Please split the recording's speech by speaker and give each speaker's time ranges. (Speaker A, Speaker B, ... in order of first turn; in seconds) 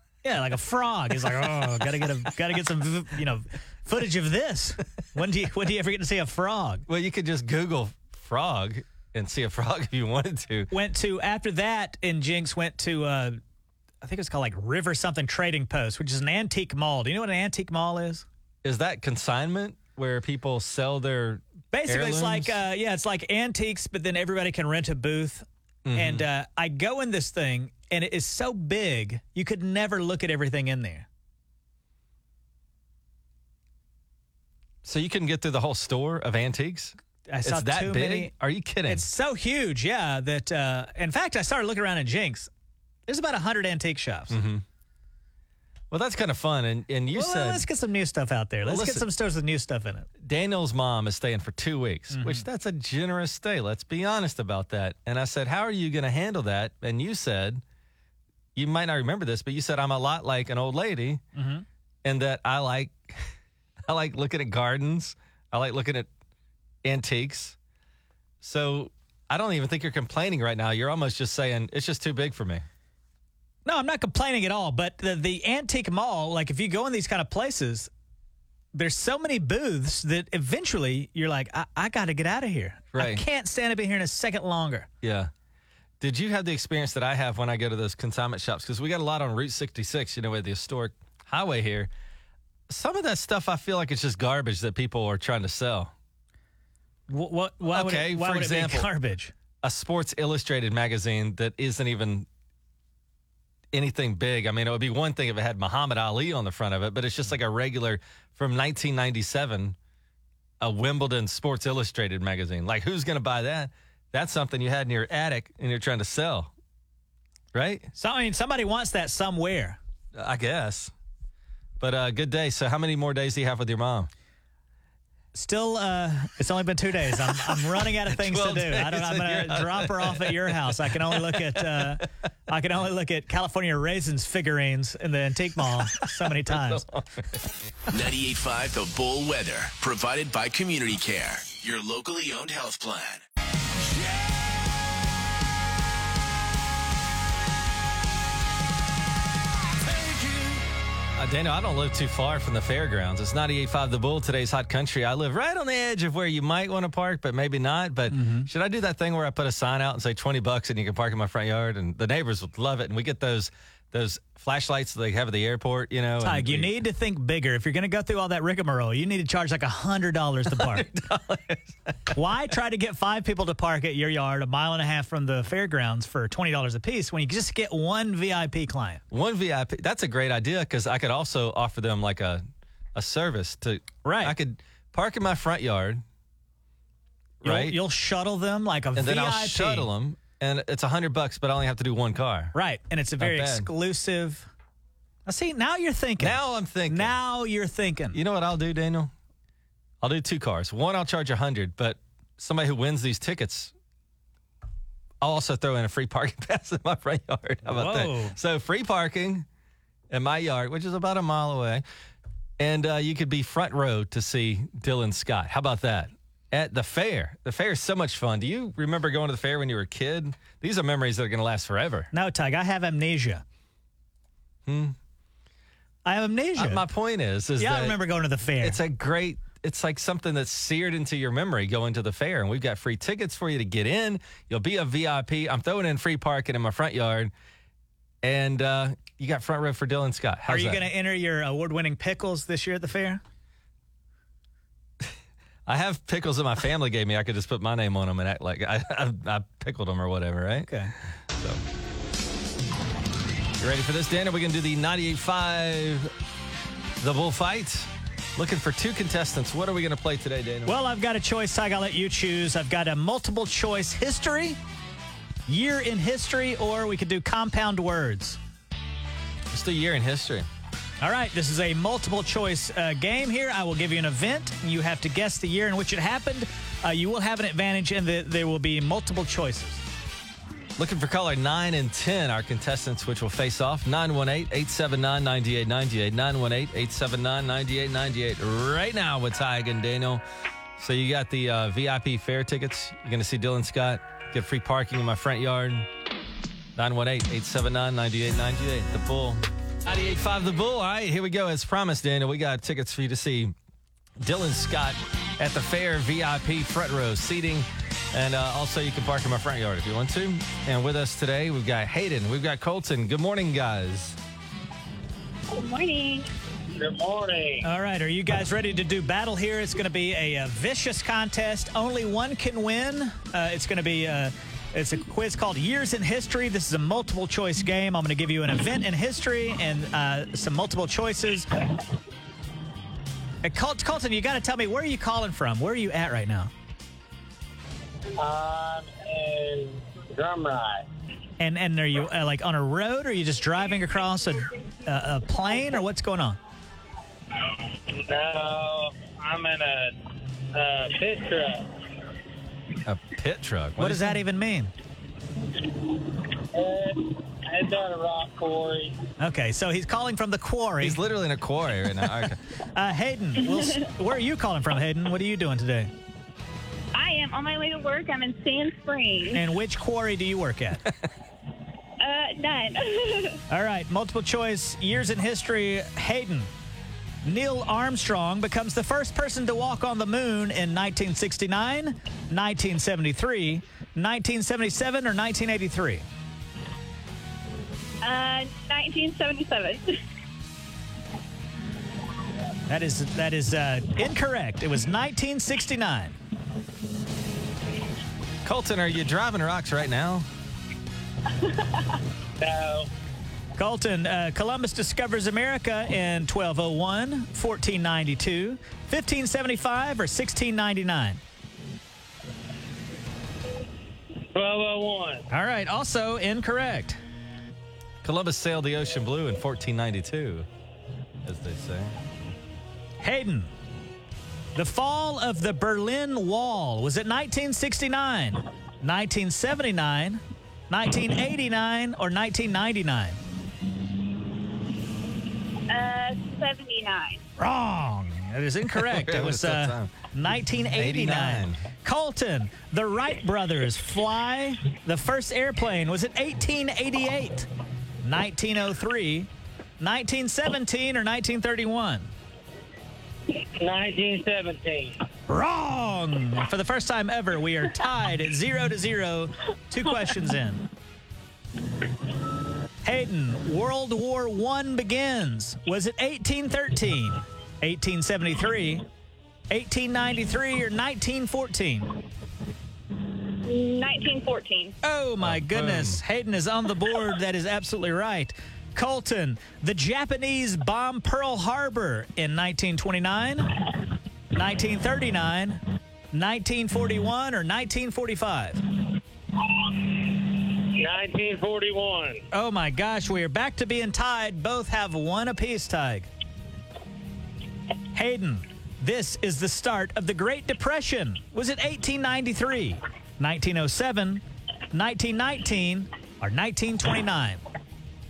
Speaker A: 0.2-6.8, 10.7-13.4, 14.0-18.2, 21.7-31.1, 37.3-38.3, 38.9-42.5, 43.1-44.4, 47.1-50.1, 52.1-52.4, 61.3-61.6, 73.7-77.9, 78.7-84.9, 97.1-99.3, 117.9-119.8, 125.3-136.8, 158.1-158.5, 166.2-170.8, 172.1-179.0, 184.0-184.3, 187.4-189.9, 192.5-194.5, 195.2-198.2, 207.7-208.3, 222.1-223.4, 226.0-226.8, 227.6-228.8, 240.5-243.2, 250.7-250.9, 260.7-264.6, 265.5-268.4, 271.0-279.8, 317.6-331.5, 333.4-336.5, 341.4-346.4, 353.8-354.7, 359.2-361.0, 362.7-365.9, 369.3-370.9, 373.5-376.5, 377.2-386.0, 392.7-396.2, 403.6-411.2, 415.3-417.0, 423.0-423.5, 424.6-433.2, 437.4-447.5, 448.0-449.3, 449.8-452.1, 455.3-460.6, 462.8-468.8, 469.5-472.0, 474.8-483.5, 484.3-485.6, 486.1-488.6, 492.3-496.1, 497.9-507.4
Speaker B: 6.9-10.7, 18.6-22.6, 25.8-26.2, 34.8-39.0, 44.3-44.6, 45.9-47.6, 48.6-49.0, 50.2-57.6, 58.5-61.2, 62.0-63.3, 63.9-66.1, 66.8-67.5, 68.4-72.7, 82.9-83.2, 85.0-85.3, 86.0-91.9, 92.7-95.9, 97.7-98.9, 99.6-102.3, 103.7-109.8, 110.6-116.5, 117.5-117.9, 120.1-120.9, 121.8-124.1, 127.3-132.0, 135.7-137.5, 151.2-166.8, 170.5-172.1, 179.1-182.4, 182.9-186.0, 187.4-187.8, 188.9-192.5, 193.2-193.7, 196.2-197.1, 198.1-199.1, 200.0-203.7, 205.2-209.4, 210.1-211.8, 212.6-222.1, 224.7-224.9, 226.6-228.0, 228.6-237.3, 238.2-240.8, 245.7-250.7, 251.3-251.6, 253.6-256.1, 257.0-260.8, 269.5-270.5, 280.8-290.2, 290.8-295.9, 296.8-303.5, 304.2-314.2, 352.8-354.2, 360.8-362.4, 398.4-400.3, 418.0-420.5, 421.2-422.0, 438.7-439.9, 440.8-441.6, 475.2-476.0
Speaker C: 137.9-143.2
Speaker D: 315.5-316.3, 366.9-369.4, 372.0-373.4, 388.0-390.0, 435.7-437.2, 473.4-474.8
Speaker E: 316.7-317.6, 338.2-340.9, 347.6-349.9, 350.5-351.8, 356.5-359.0, 402.4-402.9, 414.3-415.2, 453.6-455.0, 489.6-492.2